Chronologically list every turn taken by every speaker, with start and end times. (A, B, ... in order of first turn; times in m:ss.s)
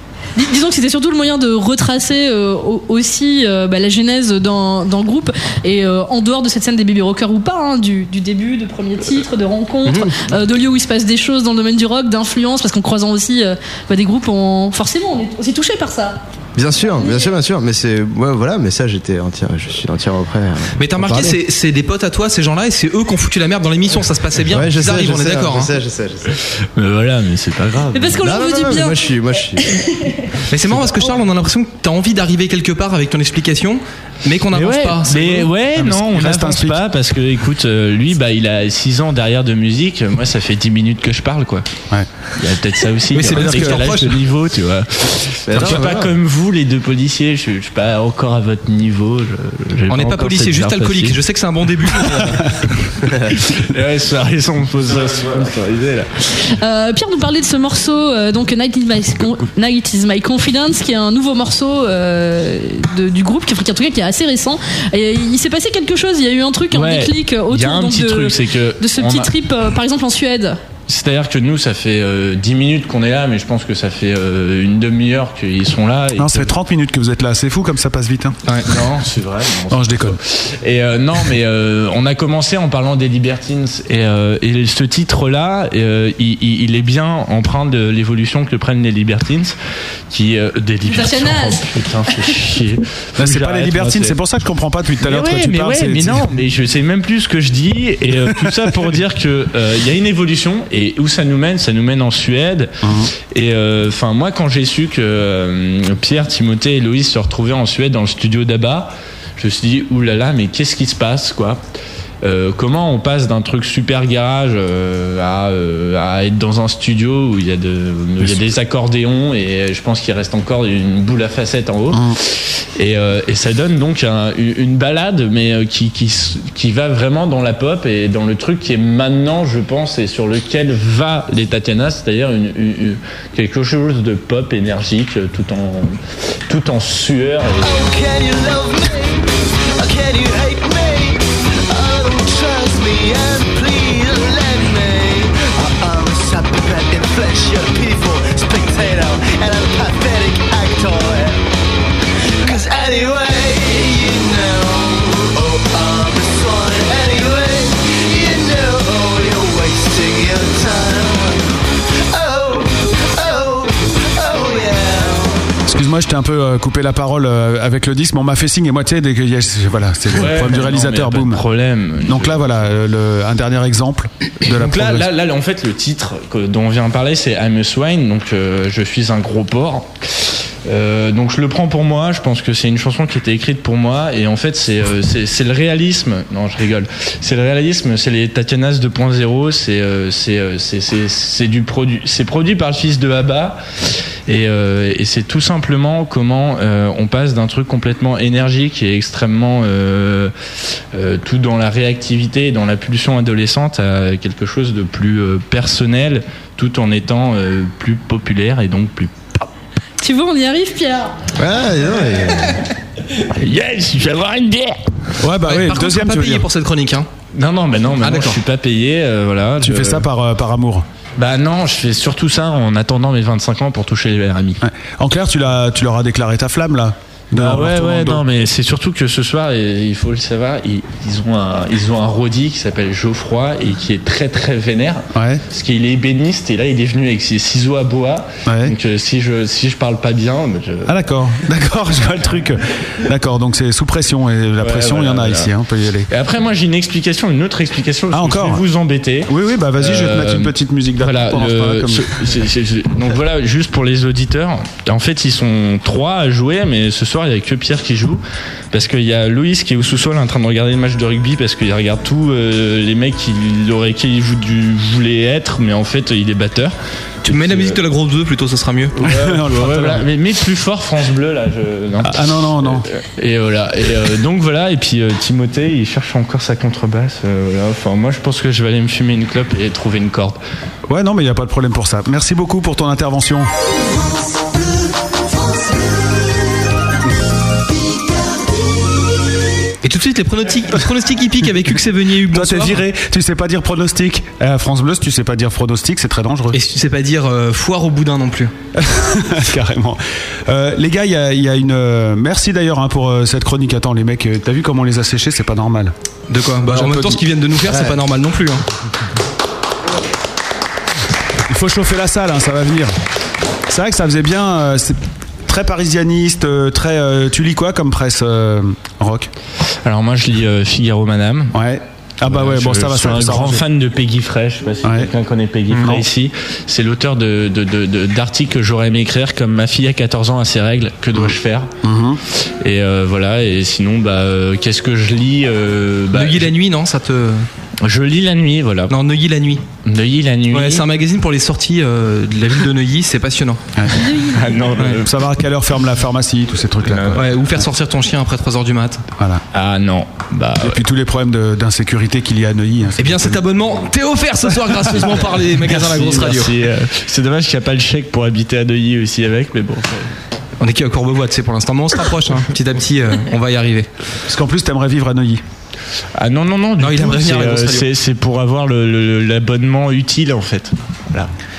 0:00.4-0:16.2 A
0:09.8-0:10.2 B
0:16.6-0:21.4 B
0:16.9-0:17.4 A
0:20.8-0:25.7 C
0:24.5-0:26.4 B
0:26.8-0:28.2 D
0:27.9-0:29.1 A
0:28.2-0:29.7 B
0:29.6-0:30.3 A
0:30.5-0:35.5 C
0:34.5-0:41.7 D
0:35.8-0:36.8 E
0:42.4-0:51.2 D
0:43.1-0:44.2 C
0:43.3-0:43.8 E
0:45.5-0:46.1 B
0:49.9-0:52.6 C
0:51.9-0:52.3 D
0:53.3-0:56.1 D
0:56.4-1:10.6 A
1:06.7-1:09.3 D
1:10.9-1:16.6 D
1:16.2-1:18.4 E
1:18.6-1:29.6 D
1:19.7-1:20.2 E
1:30.1-1:34.2 D
1:30.9-1:32.4 A
1:33.2-1:36.3 E
1:35.0-1:51.6 D
1:38.3-1:38.8 E
1:42.8-1:43.1 E
1:52.2-2:16.0 D
2:16.5-2:17.8 D
2:17.6-2:31.5 F
2:32.4-2:41.6 F
2:42.1-2:45.4 F
2:45.7-2:51.4 E
2:50.1-2:52.7 D
2:52.1-2:55.1 E
2:54.4-3:13.6 D
3:14.3-3:20.3 D
3:20.9-3:29.1 D
3:30.0-3:31.2 A
3:31.4-3:32.6 B
3:33.2-3:34.8 D
3:35.2-3:36.5 E
3:35.4-3:37.1 C
3:37.3-3:40.1 D
3:38.0-3:38.4 C
3:39.6-3:40.8 E
3:41.2-3:44.6 D
3:44.6-3:48.2 E
3:47.3-4:01.0 D
3:55.1-3:55.4 E
3:58.5-3:58.8 E
4:00.9-4:06.1 E
4:04.6-4:05.5 D
4:06.1-4:27.8 D
4:08.1-4:08.6 E
4:09.3-4:12.1 E
4:27.2-4:29.1 C
4:29.0-4:30.1 E
4:29.0-4:40.4 D
4:32.0-4:32.8 E
4:40.9-4:43.5 E
4:49.8-4:52.8 C
4:52.3-4:56.6 E
4:56.5-4:58.5 C
4:58.8-5:05.9 E
5:06.3-5:08.6 C
5:06.6-5:07.2 E
5:11.5-5:12.9 E
5:13.7-5:19.3 E
5:19.8-5:21.6 D
5:21.5-5:23.6 E
5:22.2-5:31.7 D
5:25.7-5:26.0 E
5:31.8-5:32.2 E
5:32.6-5:36.5 D
5:36.1-5:37.5 C
5:37.8-5:39.0 D
5:38.9-5:39.6 C
5:39.8-5:40.9 D
5:40.5-5:43.6 C
5:43.8-5:44.1 E
5:44.0-5:44.4 A
5:44.2-5:45.1 D
5:45.0-5:47.2 E
5:46.8-5:47.6 D
5:47.1-5:49.0 C
5:49.2-5:49.4 E
5:49.5-5:50.8 D
5:50.6-5:53.4 E
5:53.0-5:56.6 C
5:54.9-6:00.1 D
6:00.6-6:03.9 C
6:04.3-6:05.4 E
6:06.2-6:11.3 D
6:06.8-6:07.9 C